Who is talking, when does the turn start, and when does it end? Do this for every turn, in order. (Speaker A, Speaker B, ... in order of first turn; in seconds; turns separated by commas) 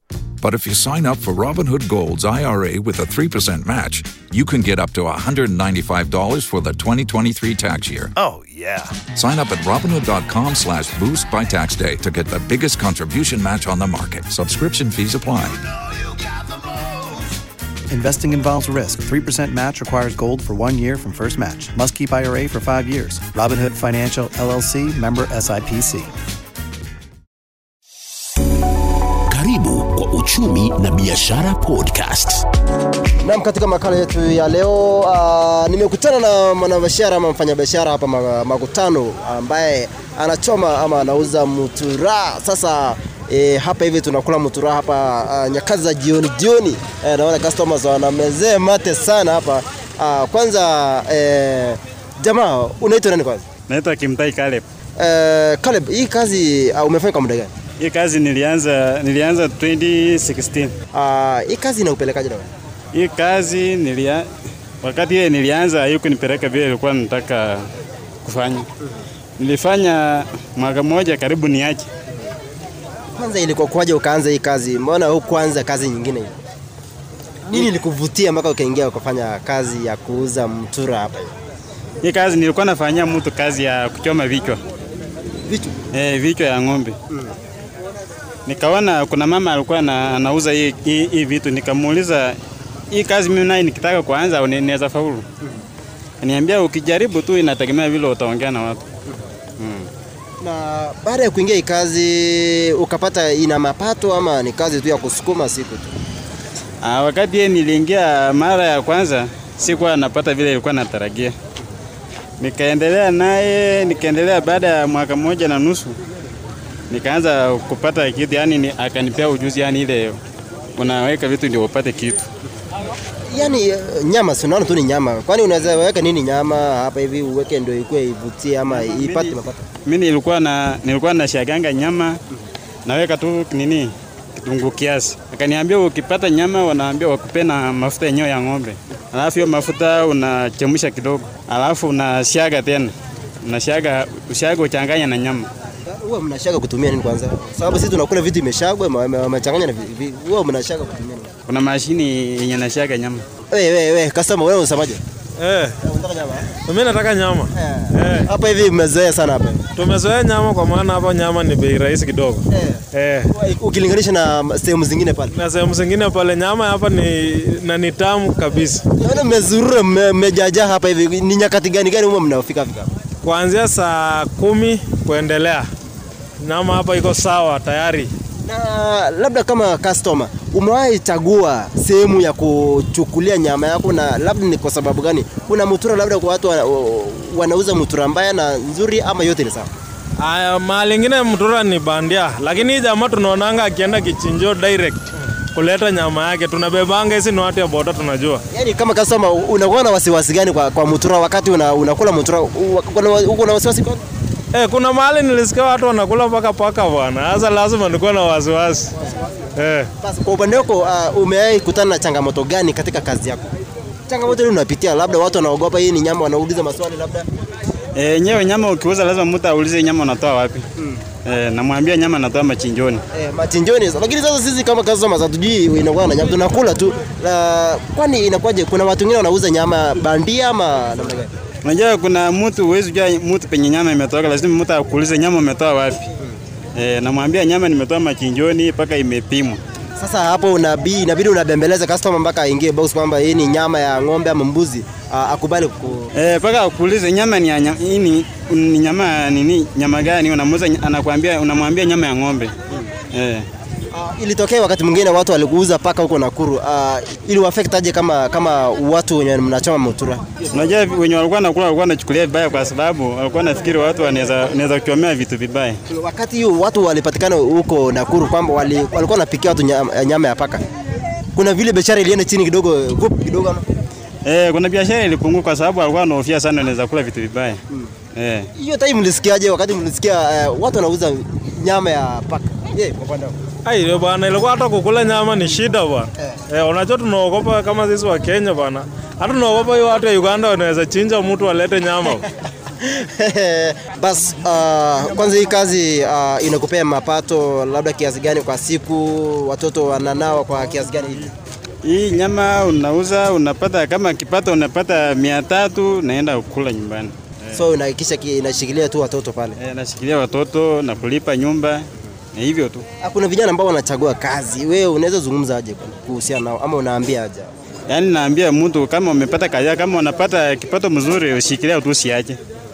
Speaker A: 0.4-8.1, Speaker B: 8.2-8.9, Speaker A: 9.0-15.6, Speaker B: 17.9-26.1, Speaker C: 29.3-32.5, Speaker D: 33.2-53.5, Speaker E: 53.7-54.6, Speaker D: 55.0-57.5, Speaker E: 57.8-60.7, Speaker D: 60.9-62.5, Speaker E: 62.9-64.3, Speaker E: 64.8-67.7, Speaker E: 68.2-68.7, Speaker E: 69.4-71.9, Speaker D: 73.2-76.4, Speaker D: 77.5-81.3, Speaker E: 82.0-84.6, Speaker D: 85.5-85.8, Speaker E: 85.9-87.0, Speaker D: 87.1-87.4, Speaker E: 88.5-92.4, Speaker E: 92.9-95.3, Speaker E: 96.2-98.9, Speaker E: 99.6-99.9, Speaker D: 100.4-106.0, Speaker E: 106.8-111.3, Speaker E: 112.4-116.0, Speaker E: 116.9-120.2, Speaker E: 120.8-122.3, Speaker D: 123.3-129.7, Speaker E: 128.7-132.2, Speaker E: 132.9-145.5, Speaker D: 145.8-151.3, Speaker E: 151.5-153.2, Speaker D: 153.5-155.0, Speaker F: 155.4-155.8, Speaker D: 155.8-156.5, Speaker F: 156.6-158.3, Speaker D: 157.5-159.7, Speaker F: 159.8-163.3, Speaker D: 162.5-165.3, Speaker F: 165.3-168.8, Speaker D: 169.0-172.9, Speaker F: 173.2-175.7, Speaker F: 176.4-178.1, Speaker D: 178.5-189.7, Speaker F: 190.2-195.0, Speaker F: 195.5-198.4, Speaker D: 198.5-204.0, Speaker F: 204.6-208.9, Speaker F: 209.6-209.9, Speaker D: 210.0-213.6, Speaker D: 214.1-217.3, Speaker E: 217.9-220.7, Speaker D: 220.8-221.0, Speaker E: 221.2-223.0, Speaker D: 223.1-231.3, Speaker E: 231.6-236.1, Speaker E: 236.8-239.6, Speaker D: 240.0-246.1, Speaker E: 246.2-252.6, Speaker E: 253.1-253.5, Speaker D: 253.9-260.7, Speaker E: 260.5-265.8, Speaker D: 265.9-270.6, Speaker D: 271.4-273.7, Speaker E: 274.2-277.6, Speaker E: 278.1-278.5, Speaker D: 278.6-283.4, Speaker F: 283.6-292.2, Speaker D: 292.8-301.3, Speaker E: 301.8-307.6, Speaker D: 307.5-309.6, Speaker E: 309.6-312.9, Speaker D: 313.0-317.5, Speaker E: 317.9-322.4